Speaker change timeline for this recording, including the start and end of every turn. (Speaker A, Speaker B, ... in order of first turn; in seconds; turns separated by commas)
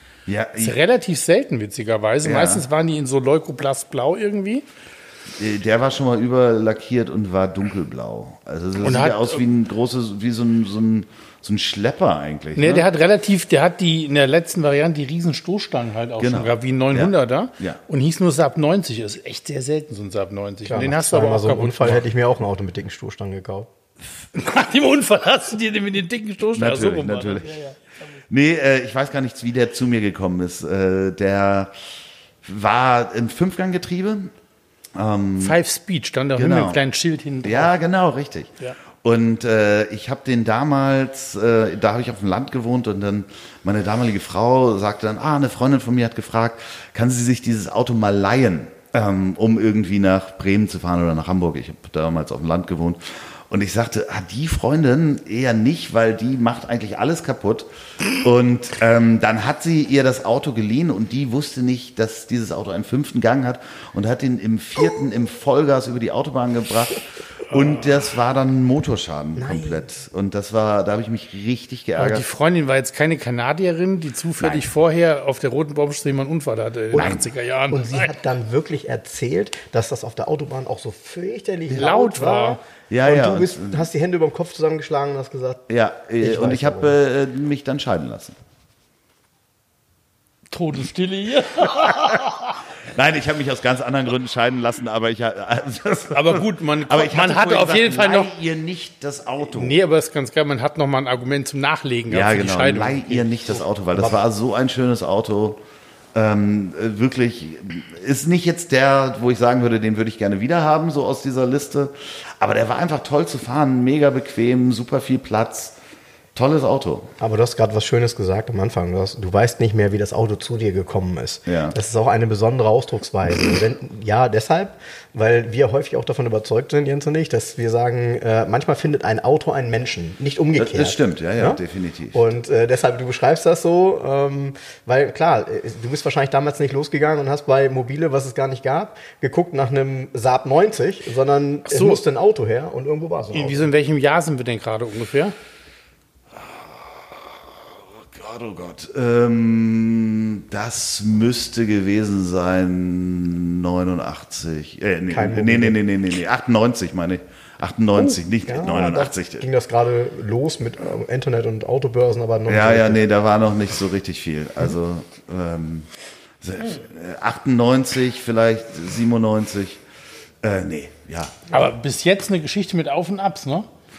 Speaker A: 0.3-0.8, Speaker B: 0.6-4.6, Speaker A: 2.2-2.7, Speaker A: 5.4-12.9, Speaker B: 8.8-9.4, Speaker B: 12.6-22.0, Speaker A: 16.2-17.8, Speaker C: 20.6-23.7, Speaker B: 24.3-27.8, Speaker A: 26.5-27.6, Speaker A: 28.3-31.7, Speaker A: 32.4-34.3, Speaker A: 34.9-35.6, Speaker B: 35.4-37.7, Speaker A: 36.4-36.8, Speaker A: 37.4-72.2, Speaker B: 67.5-67.8, Speaker C: 69.4-69.8, Speaker B: 72.0-78.1, Speaker A: 74.4-74.7, Speaker C: 76.9-85.6, Speaker A: 76.9-77.3, Speaker B: 81.7-82.6, Speaker A: 82.9-83.8, Speaker A: 85.7-88.3, Speaker C: 86.2-86.9, Speaker B: 90.5-92.5, Speaker A: 92.1-99.8, Speaker B: 96.1-98.3, Speaker B: 99.5-103.3, Speaker A: 102.1-105.6, Speaker A: 106.1-115.8, Speaker A: 116.3-117.1, Speaker C: 117.2-131.6, Speaker A: 121.5-121.8, Speaker A: 130.6-132.2, Speaker C: 132.1-143.7, Speaker B: 141.7-142.0, Speaker B: 143.3-145.3, Speaker A: 146.3-159.4, Speaker C: 155.1-155.8, Speaker C: 158.4-163.0, Speaker A: 162.5-165.9, Speaker A: 166.4-169.8, Speaker A: 170.4-171.5, Speaker B: 171.5-173.7